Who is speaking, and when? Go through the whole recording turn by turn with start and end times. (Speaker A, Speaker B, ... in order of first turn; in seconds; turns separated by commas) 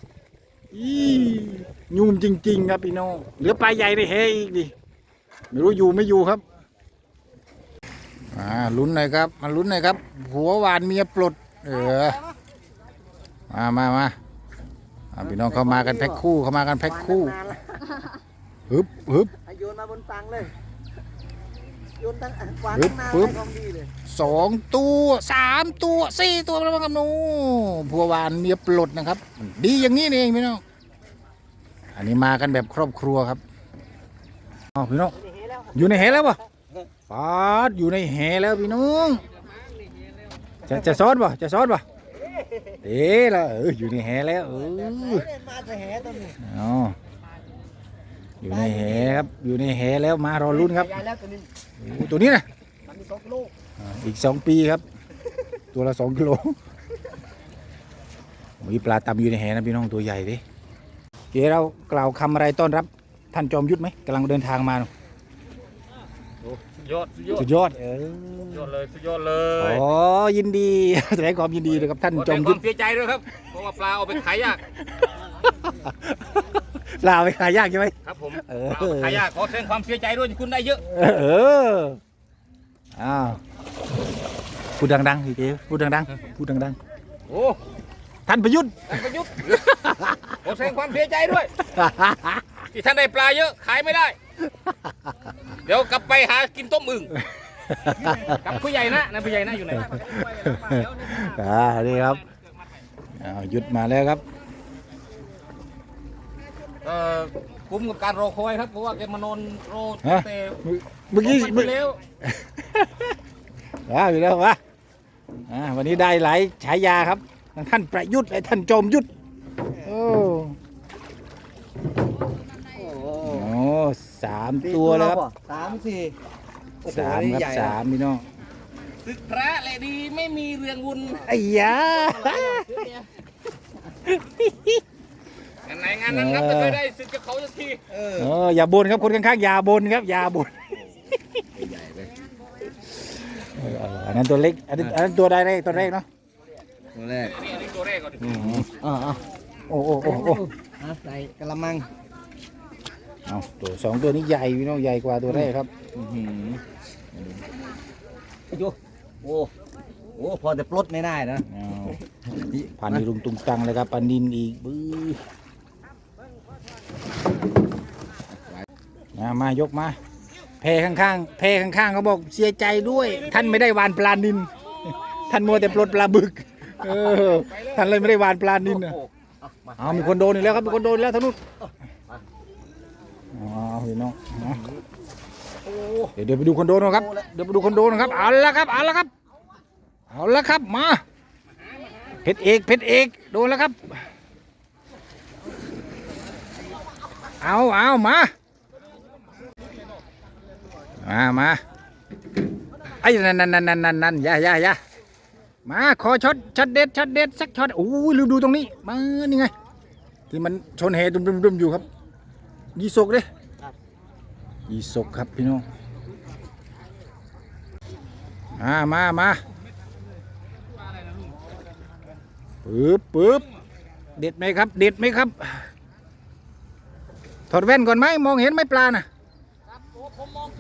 Speaker A: 0.7-4.7, Speaker A: 5.5-6.4, Speaker A: 8.3-12.2, Speaker A: 13.5-14.2, Speaker A: 15.1-17.4, Speaker B: 15.2-16.2, Speaker B: 16.8-18.1, Speaker A: 18.7-19.3, Speaker B: 19.4-20.5, Speaker B: 22.0-23.9, Speaker A: 22.7-23.4, Speaker A: 24.1-30.6, Speaker A: 31.9-33.4, Speaker A: 34.8-35.2, Speaker A: 35.7-36.4, Speaker A: 37.1-39.2, Speaker A: 40.7-41.8, Speaker A: 42.8-45.3, Speaker B: 44.8-46.4, Speaker A: 46.4-47.0, Speaker A: 48.4-51.0, Speaker B: 50.8-51.5, Speaker A: 51.8-52.5, Speaker B: 52.9-53.5, Speaker A: 53.8-54.8, Speaker A: 55.7-56.6, Speaker A: 58.6-60.4, Speaker A: 61.3-64.9, Speaker C: 66.4-67.5, Speaker A: 67.3-68.7, Speaker C: 68.5-69.8, Speaker A: 69.6-72.6, Speaker C: 72.2-74.6, Speaker A: 74.8-76.5, Speaker A: 77.0-79.3, Speaker C: 78.0-80.8, Speaker A: 80.8-82.0, Speaker A: 83.0-83.4, Speaker A: 84.8-86.8, Speaker C: 87.3-87.6, Speaker A: 88.3-88.8, Speaker C: 88.9-89.8, Speaker A: 89.7-90.4, Speaker C: 90.3-91.5, Speaker A: 91.6-92.5, Speaker C: 92.7-94.2, Speaker C: 95.7-97.1, Speaker A: 97.6-98.4, Speaker C: 98.0-101.2, Speaker A: 100.0-102.2, Speaker A: 103.2-104.2, Speaker C: 106.8-110.6, Speaker A: 110.0-113.2, Speaker C: 111.2-112.0, Speaker A: 113.9-114.6, Speaker A: 115.5-119.1, Speaker A: 119.8-120.6, Speaker B: 122.7-123.5, Speaker A: 123.2-125.2, Speaker B: 124.6-126.2, Speaker B: 126.8-127.8, Speaker A: 126.9-128.2, Speaker C: 129.0-131.3, Speaker A: 131.2-132.9, Speaker A: 134.1-134.8, Speaker C: 135.7-137.9, Speaker A: 136.1-136.8, Speaker B: 137.9-138.3, Speaker A: 138.2-140.7, Speaker B: 141.5-142.1, Speaker A: 143.6-146.1, Speaker B: 146.9-147.5, Speaker C: 147.2-148.3, Speaker B: 148.2-149.2, Speaker A: 148.3-148.7, Speaker A: 149.7-150.4, Speaker B: 150.0-151.9, Speaker A: 153.3-155.7, Speaker B: 156.0-156.6, Speaker B: 158.5-159.5, Speaker B: 160.2-163.0, Speaker A: 161.5-162.0, Speaker A: 162.8-165.2, Speaker A: 169.2-170.0, Speaker A: 170.6-174.5, Speaker A: 175.3-179.0, Speaker B: 178.7-180.4, Speaker A: 179.8-181.4, Speaker B: 181.6-182.2, Speaker A: 183.3-184.6, Speaker B: 185.7-186.1, Speaker A: 186.2-189.1, Speaker A: 190.1-191.0, Speaker A: 192.2-194.0, Speaker A: 197.4-198.3, Speaker A: 201.0-201.6, Speaker A: 202.9-204.8, Speaker A: 205.7-209.5, Speaker A: 210.3-211.9, Speaker A: 212.8-213.3, Speaker A: 214.7-215.7, Speaker A: 218.6-219.4, Speaker A: 222.7-223.5, Speaker A: 224.2-225.7, Speaker A: 227.5-229.1